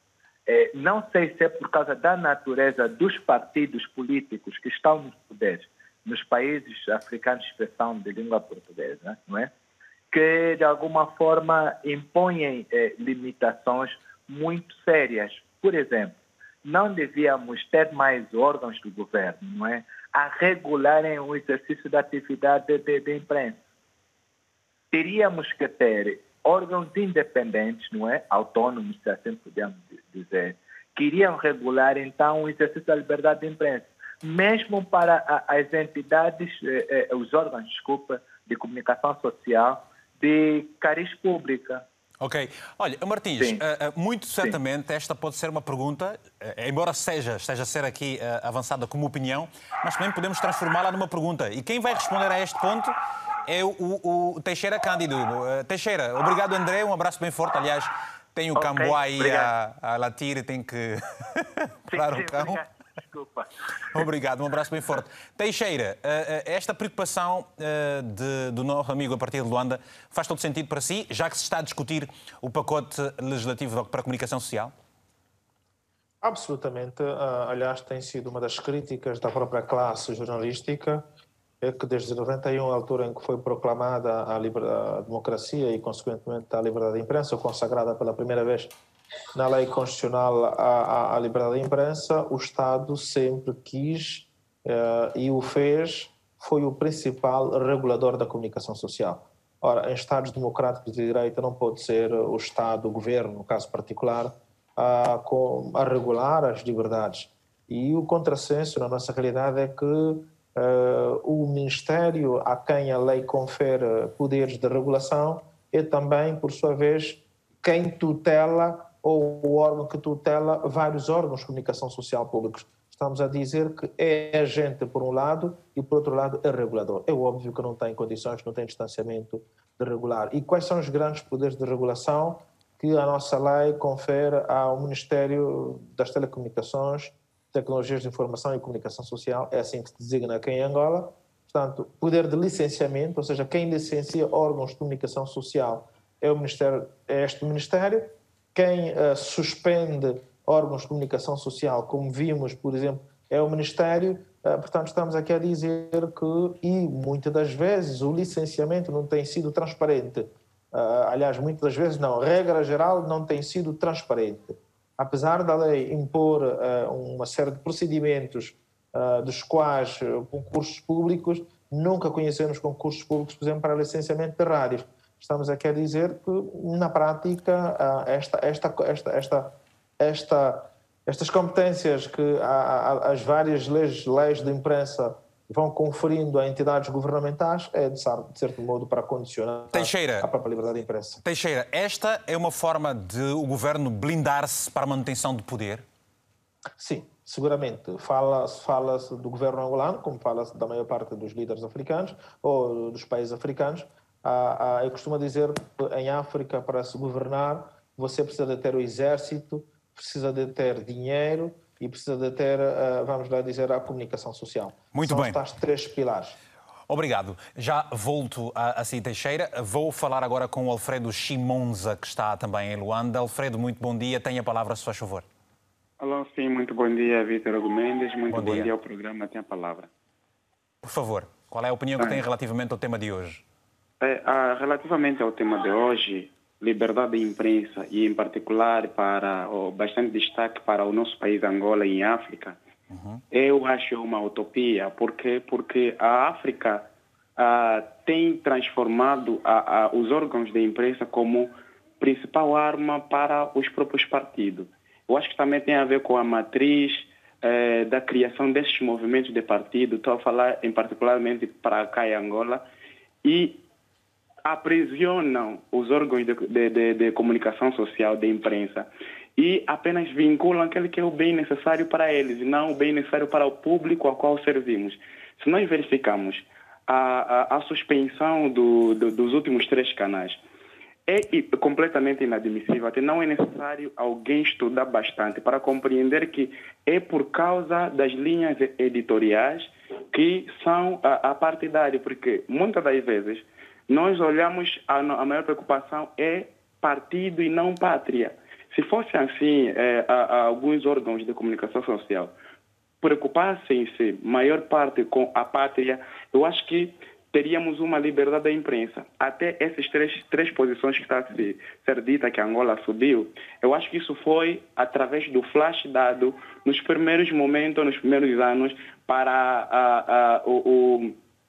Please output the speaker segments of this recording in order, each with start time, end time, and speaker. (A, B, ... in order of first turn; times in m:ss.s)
0:00.5-0:09.5 A
0:10.1-0:23.6 A
0:24.9-0:41.8 A
0:42.2-0:52.9 B
0:53.4-1:02.6 B
0:58.5-0:59.5 A
1:01.9-1:04.1 A
1:03.9-1:14.7 B
1:16.2-1:21.0 C
1:21.6-1:28.7 C
1:29.3-3:11.2 C
3:09.7-3:10.3 B
3:11.2-3:15.8 B
3:16.8-3:36.4 C
3:34.9-3:35.4 B
3:36.9-3:45.2 B
3:46.0-3:49.9 D
3:48.3-3:48.7 B
3:50.8-3:53.4 B
3:54.0-4:02.6 D
4:02.9-4:03.2 B
4:03.3-4:22.6 D
4:23.2-4:23.6 D
4:24.4-4:40.4 D
4:41.1-5:02.3 D
5:03.0-5:21.2 D